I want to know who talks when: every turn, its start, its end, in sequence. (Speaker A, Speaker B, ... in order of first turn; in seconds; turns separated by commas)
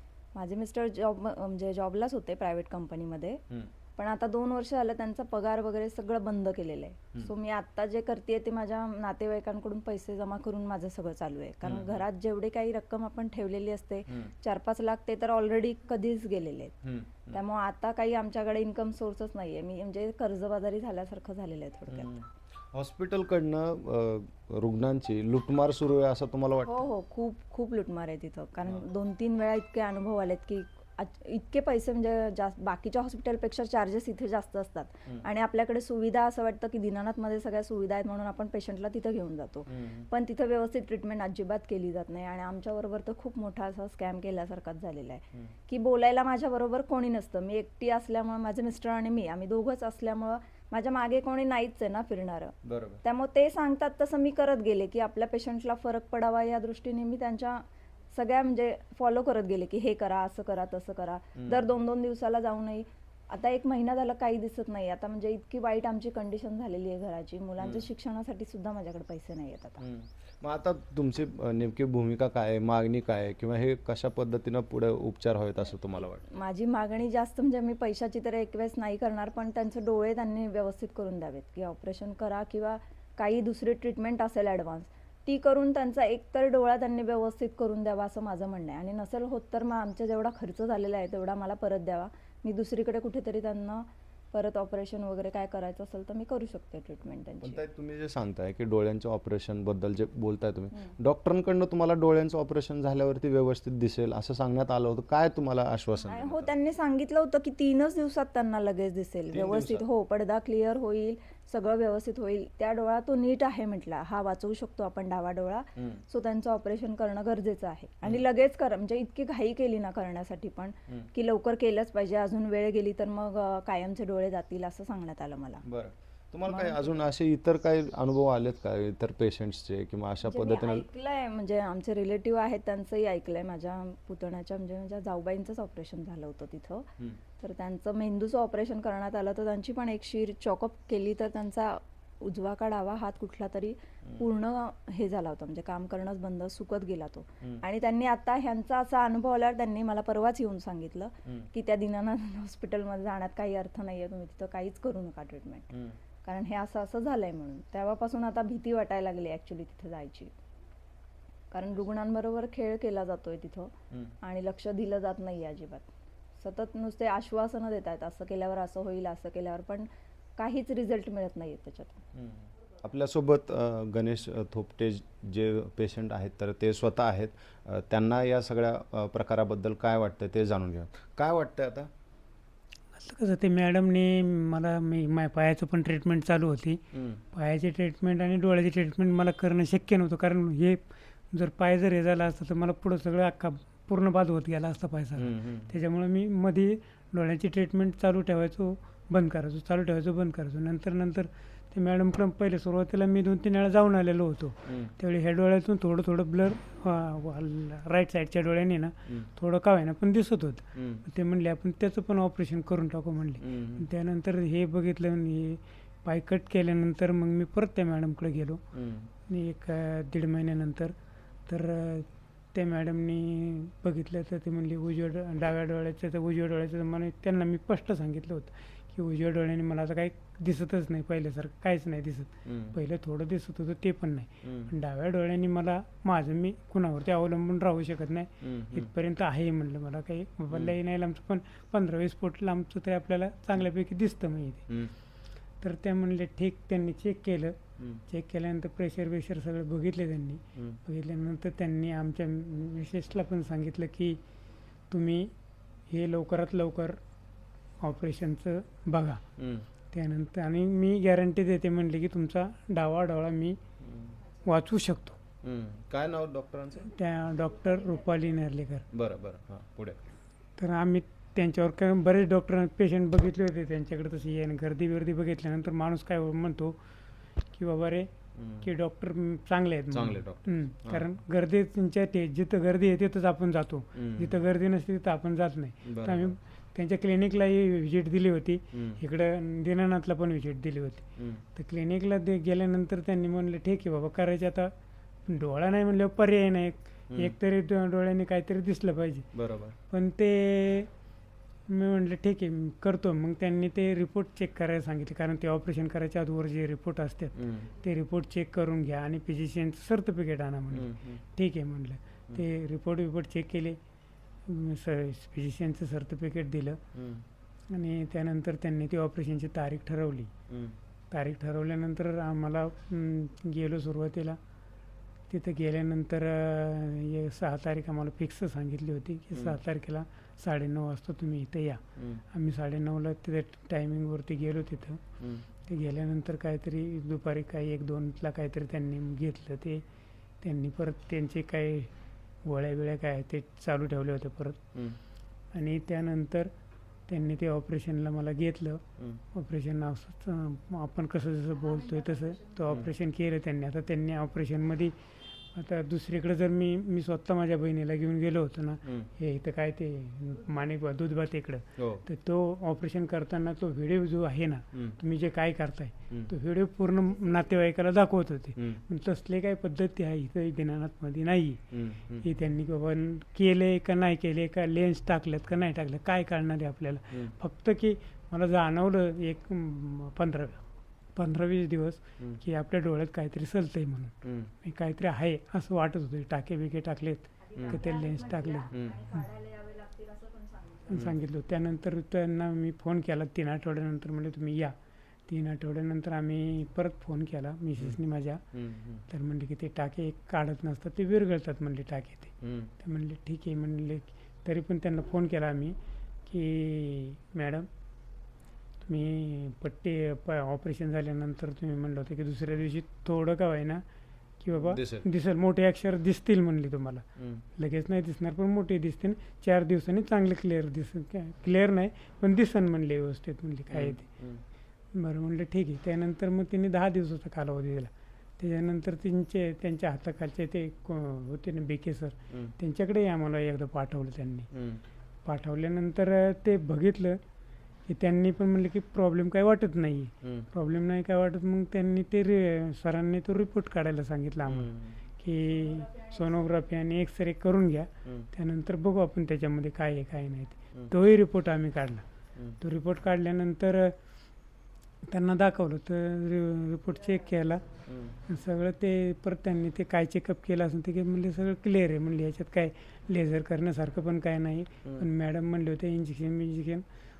Speaker A: 0.3-3.4, Speaker A: 4.0-16.8, Speaker B: 11.6-12.0, Speaker B: 14.1-14.3, Speaker B: 16.8-17.4, Speaker A: 17.3-22.2, Speaker B: 21.9-26.9, Speaker A: 26.6-69.8, Speaker B: 39.7-40.1, Speaker B: 52.6-53.0, Speaker B: 61.4-61.8, Speaker B: 67.6-67.9, Speaker B: 69.8-76.2, Speaker A: 75.7-97.6, Speaker B: 97.4-106.5, Speaker A: 105.9-125.6, Speaker B: 109.3-109.8, Speaker B: 115.8-116.0, Speaker B: 125.6-130.9, Speaker A: 126.4-127.0, Speaker A: 130.2-155.7, Speaker B: 144.0-144.3, Speaker B: 155.7-156.0, Speaker A: 156.2-160.3, Speaker A: 161.5-172.0, Speaker B: 172.1-181.9, Speaker C: 183.0-218.6, Speaker B: 186.9-187.2, Speaker B: 195.2-195.8, Speaker B: 204.7-204.9, Speaker B: 210.8-211.0, Speaker B: 213.4-213.9, Speaker B: 218.7-219.1, Speaker C: 219.3-220.9, Speaker C: 221.5-244.7, Speaker B: 232.4-232.8, Speaker B: 234.4-234.7, Speaker B: 238.4-238.9, Speaker B: 240.5-240.8, Speaker B: 244.7-244.9, Speaker C: 245.6-247.5, Speaker B: 247.8-248.0, Speaker C: 248.1-254.2, Speaker C: 254.9-255.3, Speaker C: 255.9-257.0, Speaker C: 257.8-259.2, Speaker B: 259.4-259.7, Speaker C: 259.9-263.6, Speaker B: 263.8-264.1, Speaker C: 264.4-265.2, Speaker B: 265.4-266.9, Speaker C: 266.8-268.9, Speaker B: 268.9-270.0, Speaker C: 270.6-276.7, Speaker C: 277.5-278.1, Speaker B: 278.3-278.7, Speaker C: 278.6-294.7, Speaker B: 279.9-281.1, Speaker B: 283.9-284.3, Speaker B: 285.8-286.4, Speaker B: 288.7-289.0, Speaker B: 291.2-291.4, Speaker C: 295.3-299.3, Speaker B: 299.3-299.8, Speaker C: 299.9-300.9, Speaker C: 301.7-313.8, Speaker B: 307.4-307.7, Speaker B: 310.7-311.2, Speaker C: 314.4-316.8, Speaker B: 316.9-317.2, Speaker C: 317.7-320.3, Speaker B: 320.5-320.8, Speaker C: 321.1-324.4, Speaker C: 325.3-335.0, Speaker B: 332.0-332.2, Speaker B: 335.2-335.4, Speaker C: 335.6-339.8, Speaker C: 340.4-341.9, Speaker C: 342.4-344.7, Speaker C: 345.5-346.5, Speaker C: 347.1-348.8, Speaker C: 349.3-354.9, Speaker A: 351.7-352.6, Speaker B: 352.7-352.9, Speaker C: 355.5-371.6, Speaker B: 358.8-359.1, Speaker B: 361.8-362.0, Speaker B: 368.6-368.8, Speaker B: 371.7-372.3, Speaker C: 372.2-380.6, Speaker C: 381.1-389.2, Speaker B: 384.2-384.5, Speaker A: 387.4-391.2, Speaker B: 387.6-387.8, Speaker B: 388.7-389.0, Speaker C: 390.9-394.7, Speaker B: 390.9-391.1, Speaker C: 395.3-398.4, Speaker B: 398.5-399.0, Speaker C: 399.1-405.8, Speaker B: 402.4-402.7, Speaker C: 406.3-407.7, Speaker C: 408.8-413.8, Speaker C: 414.4-417.0, Speaker B: 414.5-415.1, Speaker B: 417.2-417.4, Speaker C: 417.6-424.0, Speaker B: 423.7-424.4, Speaker C: 424.9-434.5, Speaker B: 434.5-434.8, Speaker C: 435.2-437.2, Speaker C: 437.9-452.0, Speaker B: 440.2-440.5, Speaker B: 444.4-445.0, Speaker A: 445.5-446.2, Speaker C: 452.6-453.9, Speaker C: 455.1-457.6, Speaker B: 457.9-458.1, Speaker C: 458.2-466.8